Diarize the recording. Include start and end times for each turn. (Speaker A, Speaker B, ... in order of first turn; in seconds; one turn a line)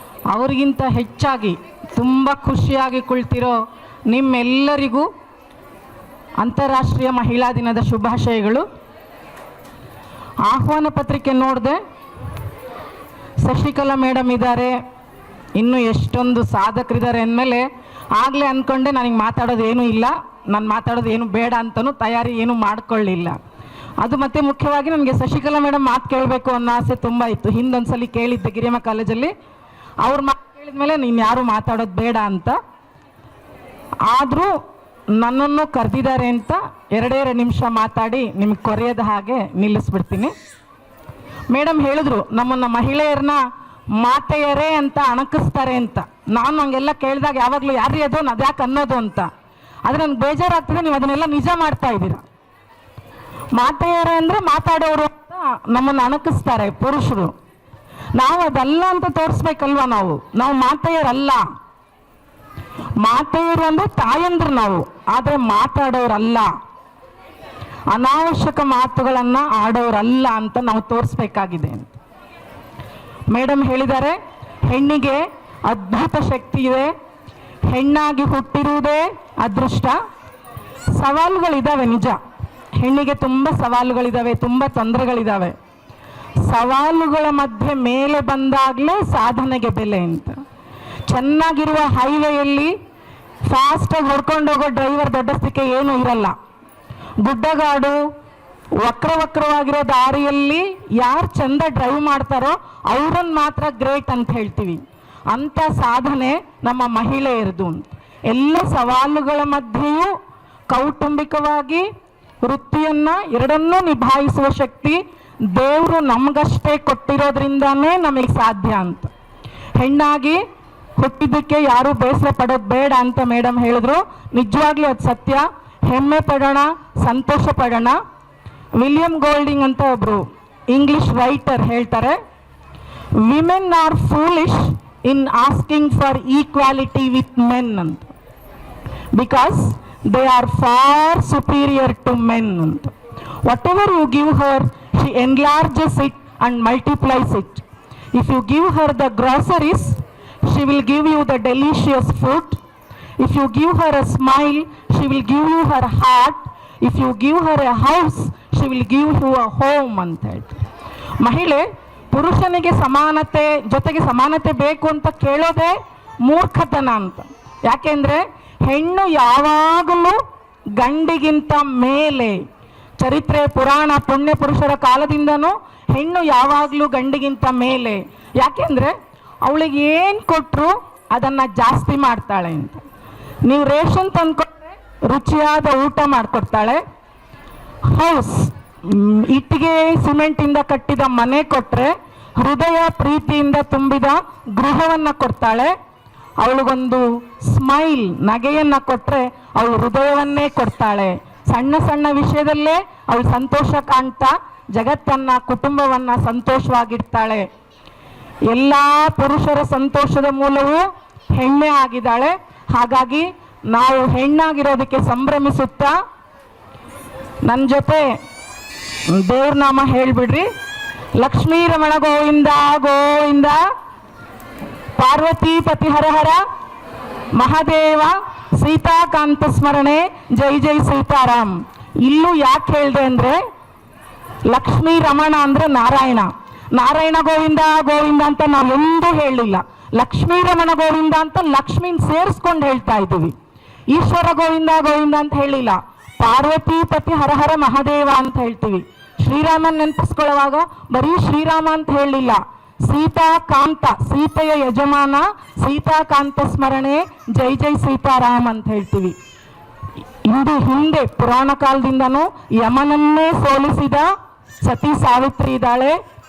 Speaker A: 0.3-5.1
Speaker A: 6.4-8.6
Speaker A: 10.4-11.8
Speaker A: 13.4-14.8
Speaker A: 15.6-23.4
Speaker A: 24.0-29.3
Speaker A: 30.0-32.6
Speaker A: 34.1-34.6
Speaker A: 35.2-40.3
Speaker A: 41.5-43.4
Speaker A: 44.0-49.3
Speaker A: 49.9-52.2
Speaker A: 53.6-57.3
Speaker A: 58.2-61.4
Speaker A: 63.0-66.5
Speaker A: 67.9-72.0
Speaker A: 73.3-74.2
Speaker A: 74.7-76.9
Speaker A: 77.7-80.0
Speaker A: 81.0-82.2
Speaker A: 82.8-85.5
Speaker A: 86.5-90.4
Speaker A: 91.1-92.7
Speaker A: 93.5-96.3
Speaker A: 97.2-98.0
Speaker A: 98.8-110.1
Speaker A: 110.7-111.8
Speaker A: 112.4-115.0
Speaker A: 115.5-119.1
Speaker A: 119.8-120.4
Speaker A: 121.0-128.0
Speaker A: 128.8-132.2
Speaker A: 133.2-138.1
Speaker A: 139.2-142.9
Speaker A: 143.5-152.6
Speaker A: 153.2-160.6
Speaker A: 161.2-165.8
Speaker A: 166.3-170.2
Speaker A: 170.8-172.4
Speaker A: 173.0-182.8
Speaker A: 183.5-186.8
Speaker A: 187.9-195.8
Speaker A: 196.4-207.5
Speaker A: 208.5-215.9
Speaker A: 217.5-218.1
Speaker A: 219.1-220.5
Speaker A: 221.2-223.6
Speaker A: 225.0-226.4
Speaker A: 227.4-233.4
Speaker A: 234.5-243.3
Speaker A: 243.9-259.1
Speaker A: 260.3-264.1
Speaker A: 264.6-266.0